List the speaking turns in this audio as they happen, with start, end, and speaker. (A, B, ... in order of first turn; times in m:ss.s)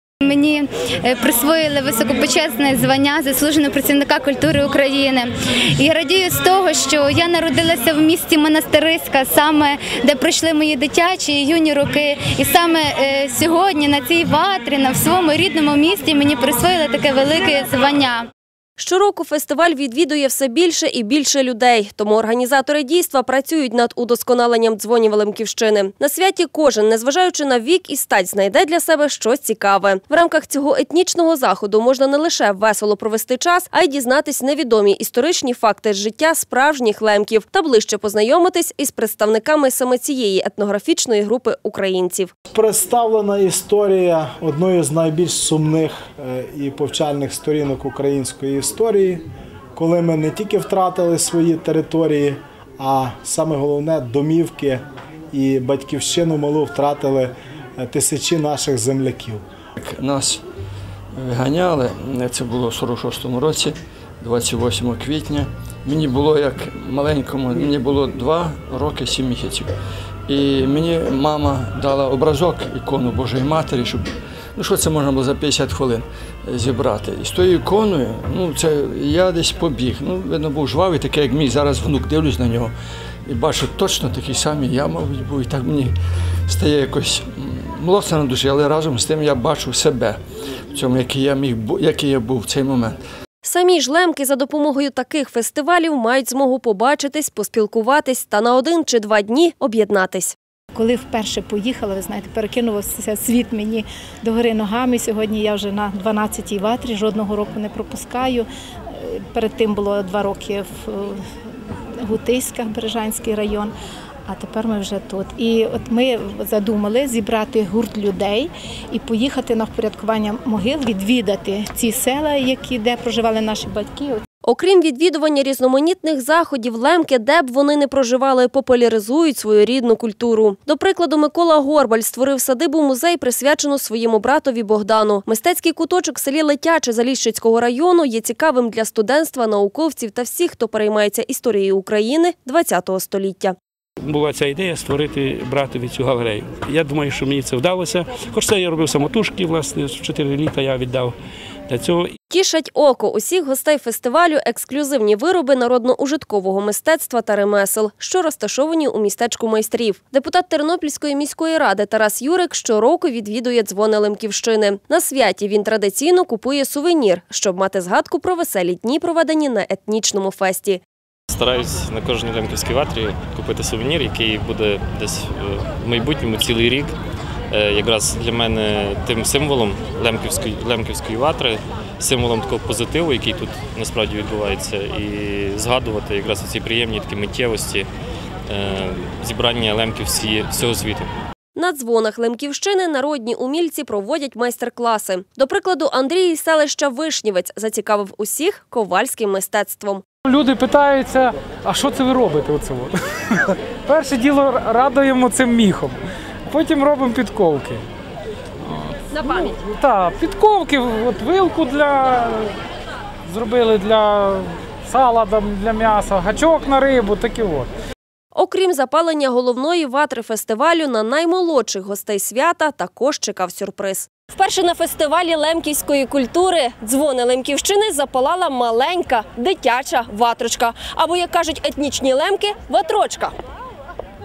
0:00.2-0:18.3 A
0:18.8-0:42.3 B
0:42.5-0:49.2 C
0:49.8-0:59.4 C
0:59.8-1:00.4 D
1:01.2-1:09.7 D
1:10.3-1:14.0 D
1:14.6-1:22.7 D
1:23.3-1:25.9 D
1:26.5-1:30.2 D
1:30.7-1:33.0 D
1:33.4-1:40.3 B
1:40.7-1:51.2 E
1:52.0-1:53.7 E
1:54.3-2:04.2 E
2:04.4-2:23.5 B
2:24.0-2:31.1 F
2:31.7-2:32.1 F
2:32.3-2:50.8 B
2:51.3-2:56.9 G
2:57.5-3:07.9 G
3:08.5-3:11.1 G
3:11.5-3:20.0 B
3:20.2-3:27.8 H
3:28.7-3:28.9 H
3:29.1-3:29.6 B
3:29.6-3:32.5 H
3:33.3-3:37.7 H
3:38.3-3:53.3 B